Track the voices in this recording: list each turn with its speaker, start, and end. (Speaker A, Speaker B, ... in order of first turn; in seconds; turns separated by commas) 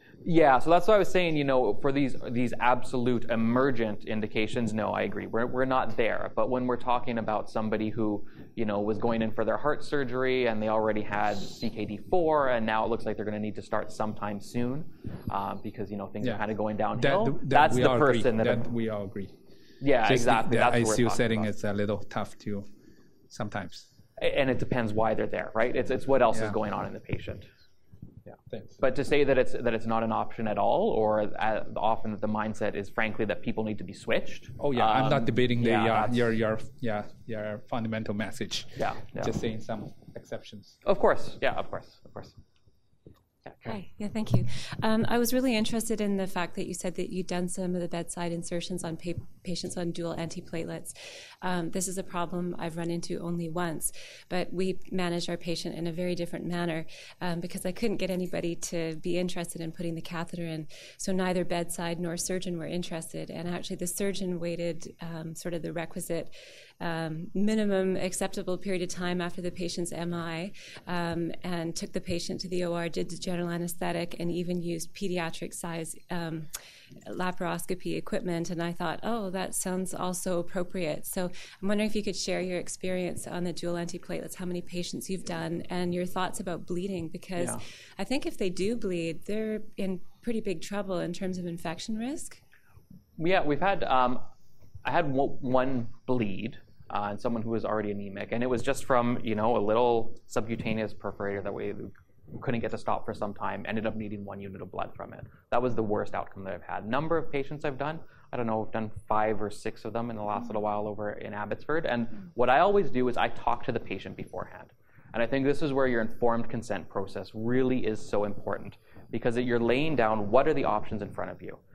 Speaker A: 0.2-18.7, Speaker B: 16.9-19.3, Speaker A: 19.8-21.5, Speaker B: 20.0-22.7, Speaker B: 23.3-23.9, Speaker A: 24.2-27.5, Speaker B: 26.3-26.6, Speaker B: 28.5-28.9, Speaker A: 28.8-36.3, Speaker B: 34.6-40.8, Speaker A: 38.8-39.3, Speaker A: 40.8-42.4, Speaker A: 43.4-43.8, Speaker C: 43.7-76.5, Speaker C: 77.0-92.4, Speaker A: 93.2-94.3, Speaker A: 94.8-121.6